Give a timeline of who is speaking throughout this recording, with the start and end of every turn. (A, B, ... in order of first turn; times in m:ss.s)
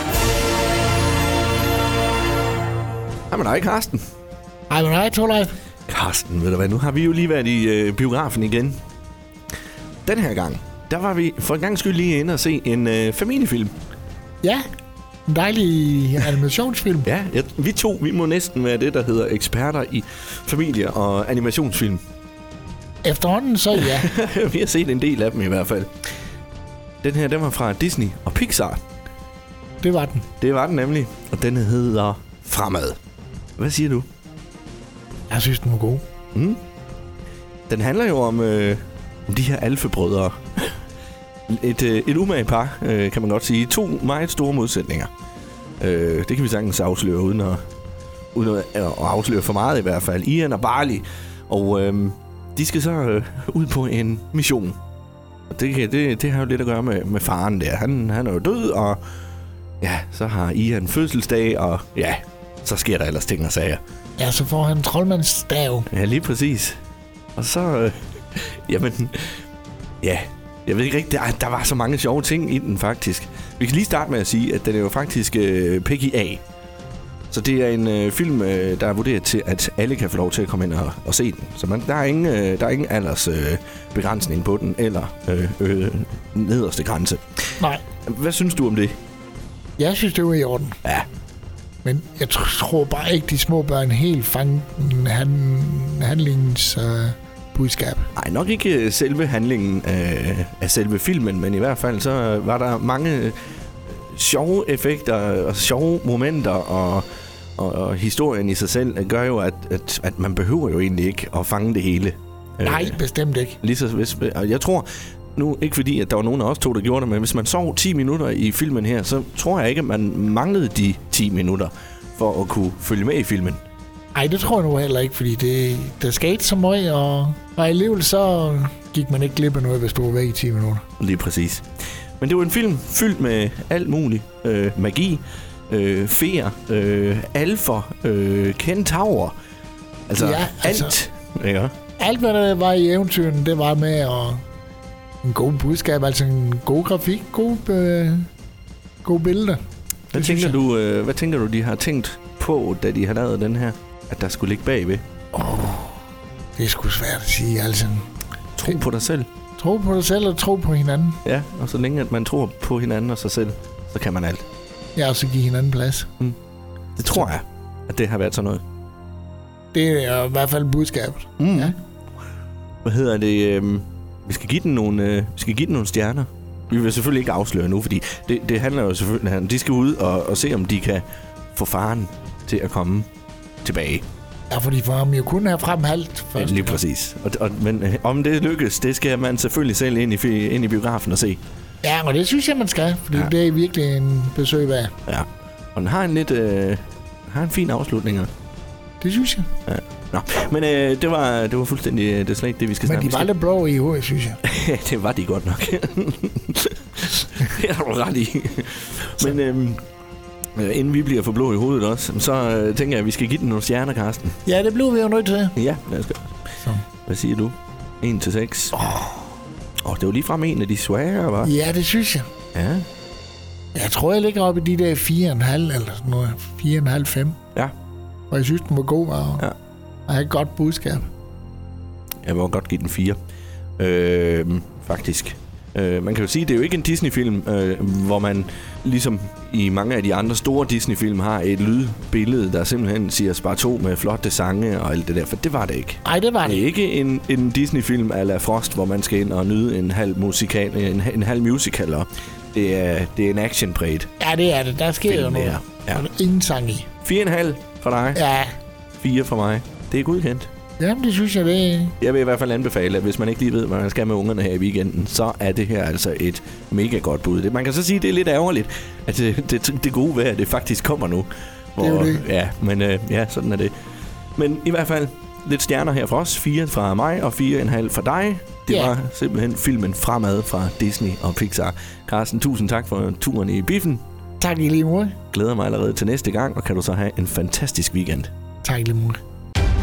0:03.3-0:04.0 A
0:04.7-0:05.6 B
0:05.9-0:08.8 A
0:10.0-0:13.7 A
0:15.3-0:17.1 B
0:17.0-0:22.0 A
0:23.0-0:24.1 B
0:23.8-0:25.9 A
0:27.0-0:28.8 A
0:29.8-0:30.3 B
0:30.4-0:33.0 A
0:33.6-0:34.1 A
0:35.3-0:36.0 B
0:36.3-0:36.6 A
0:37.7-0:40.7 A
0:41.5-0:45.1 A
0:45.8-0:47.6 A
0:48.3-0:54.8 A
0:55.5-0:59.0 A
0:59.8-1:03.8 A
1:04.2-1:05.9 B
1:05.9-1:06.8 A
1:07.4-1:09.4 A
1:10.0-1:16.4 A
1:17.3-1:27.2 A
1:28.1-1:29.0 A
1:29.8-1:30.8 B
1:31.8-1:38.1 B
1:38.2-1:43.4 A
1:43.9-1:47.0 A
1:47.6-1:53.0 A
1:52.6-1:53.6 B
1:53.6-2:03.6 A
2:04.1-2:10.8 B
2:11.0-2:11.6 A
2:12.2-2:19.3 A
2:20.1-2:21.7 A
2:20.2-2:21.0 B
2:22.0-2:24.4 B
2:25.2-2:28.3 B
2:29.0-2:29.6 B
2:30.1-2:35.0 A
2:30.1-2:30.6 B
2:35.3-2:36.0 B
2:36.6-2:38.1 B
2:38.6-2:39.3 A
2:39.6-2:41.2 B
2:41.2-2:44.5 A
2:45.0-2:46.1 B
2:47.0-2:48.6 A
2:49.7-2:51.8 B
2:51.4-2:51.8 A
2:52.8-3:03.1 A
3:03.6-3:04.0 A
3:04.5-3:06.8 B
3:06.4-3:11.4 A
3:11.8-3:14.9 B
3:15.1-3:18.3 A
3:19.0-3:19.5 B
3:19.7-3:23.3 A
3:22.8-3:24.4 B
3:24.4-3:29.8 A
3:30.6-3:34.4 A
3:34.4-3:35.6 B
3:35.6-3:36.3 A
3:37.1-3:38.8 A
3:38.8-3:39.2 B
3:39.8-3:41.5 A
3:41.4-3:42.3 B
3:42.5-3:42.9 A
3:43.7-3:47.4 B
3:48.3-3:49.5 B
3:50.1-3:51.1 B
3:52.2-3:53.2 A
3:53.8-4:14.1 A
4:06.0-4:06.7 B
4:14.2-4:16.9 B
4:15.1-4:16.0 A
4:17.0-4:18.2 A
4:18.1-4:18.6 B
4:19.0-4:20.5 A
4:20.8-4:22.0 B
4:22.0-4:33.7 A
4:31.8-4:32.2 B
4:34.4-4:44.0 A
4:38.7-4:38.9 B
4:44.4-4:45.2 B
4:45.3-4:48.3 A
4:48.6-4:49.2 B